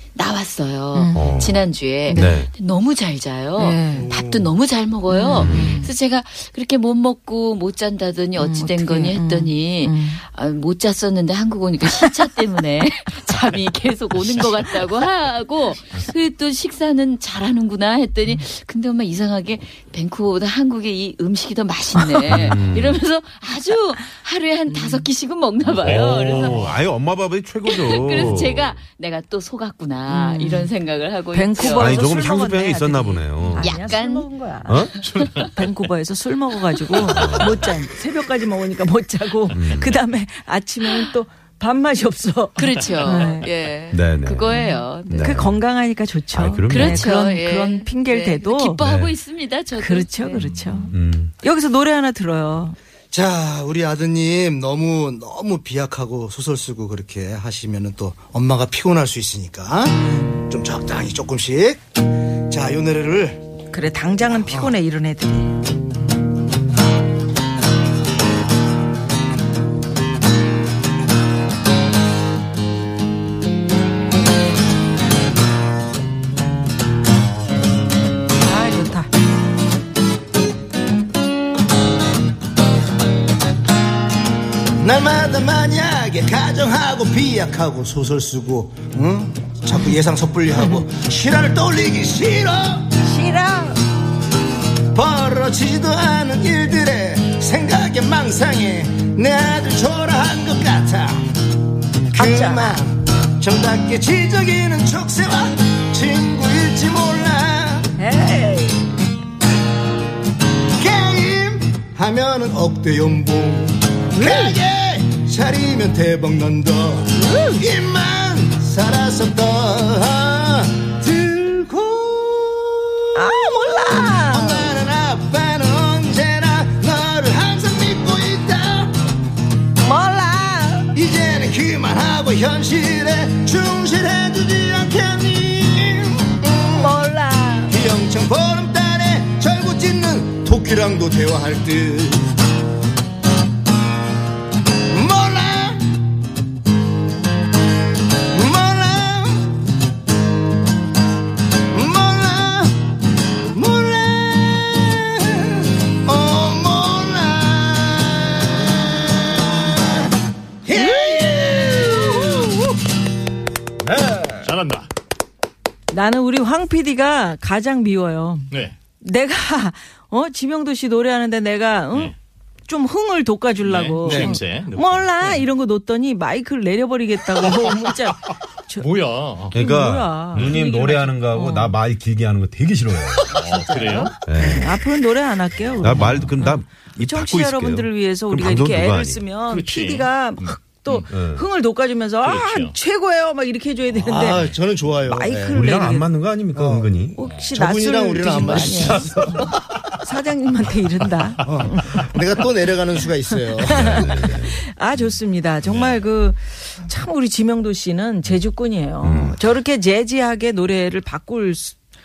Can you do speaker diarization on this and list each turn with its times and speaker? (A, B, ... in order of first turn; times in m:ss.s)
0:00.2-0:26.7 A
0:00.9-0:01.5 B
0:01.1-0:02.5 C
0:02.1-0:02.4 B
0:03.6-0:04.1 B
0:03.9-0:04.5 D
0:05.1-0:05.9 B
0:05.4-0:05.8 C
0:08.4-0:10.2 B
0:22.3-0:23.0 C
0:24.7-0:25.1 B
0:25.8-0:28.8 C
0:25.9-0:26.7 E
0:27.6-0:32.1 A
0:30.1-0:30.7 B
0:31.3-0:43.5 B
0:31.7-0:33.8 C
0:33.6-0:34.3 A
0:34.7-0:34.9 C
0:35.0-0:35.5 A
0:37.0-0:37.7 C
0:39.5-0:40.0 C
0:42.6-0:45.4 A
0:43.9-0:45.6 C
0:44.5-0:48.8 B
0:46.3-0:47.0 C
0:46.7-0:50.5 A
0:48.8-0:49.1 C
0:49.8-0:52.8 B
0:50.4-0:51.3 C
0:53.1-1:01.8 D
1:00.0-1:00.4 B
1:02.5-1:03.4 D
1:03.7-1:05.5 B
1:04.2-1:04.7 D
1:18.4-1:19.1 B
1:24.8-1:32.9 D
1:30.5-1:30.8 B
1:33.0-1:33.8 B
1:34.9-1:41.2 D
1:42.1-1:42.8 B
1:42.1-1:47.9 D
1:48.0-1:48.9 B
1:50.8-2:09.0 D
1:54.1-1:54.6 B
1:57.2-1:57.6 B
2:03.1-2:04.7 B
2:09.8-2:10.9 B
2:10.9-2:16.9 D
2:16.8-2:17.7 B
2:17.7-2:22.4 D
2:24.9-2:26.0 D
2:28.3-2:29.6 D
2:31.7-2:32.8 D
2:33.5-2:40.1 D
2:40.6-2:42.6 D
2:40.7-2:42.7 B
2:43.8-2:44.5 C
2:44.4-2:44.9 E
2:45.9-2:52.1 B
2:52.7-2:58.9 B
2:53.6-2:55.4 E
2:54.0-2:54.4 D
2:58.8-2:59.6 E
2:59.5-3:03.7 C
2:59.5-3:01.8 B
3:03.4-3:04.1 E
3:03.5-3:14.5 B
3:04.2-3:04.9 C
3:05.7-3:09.2 C
3:09.5-3:11.0 E
3:11.1-3:11.4 C
3:12.2-3:12.7 E
3:14.0-3:15.6 D
3:15.1-3:16.0 B
3:15.5-3:17.2 C
3:16.5-3:19.3 D
3:17.1-3:22.2 B
3:18.4-3:19.6 C
3:21.4-3:24.0 D
3:23.3-3:31.7 B
3:23.6-3:24.6 C
3:29.0-3:29.4 C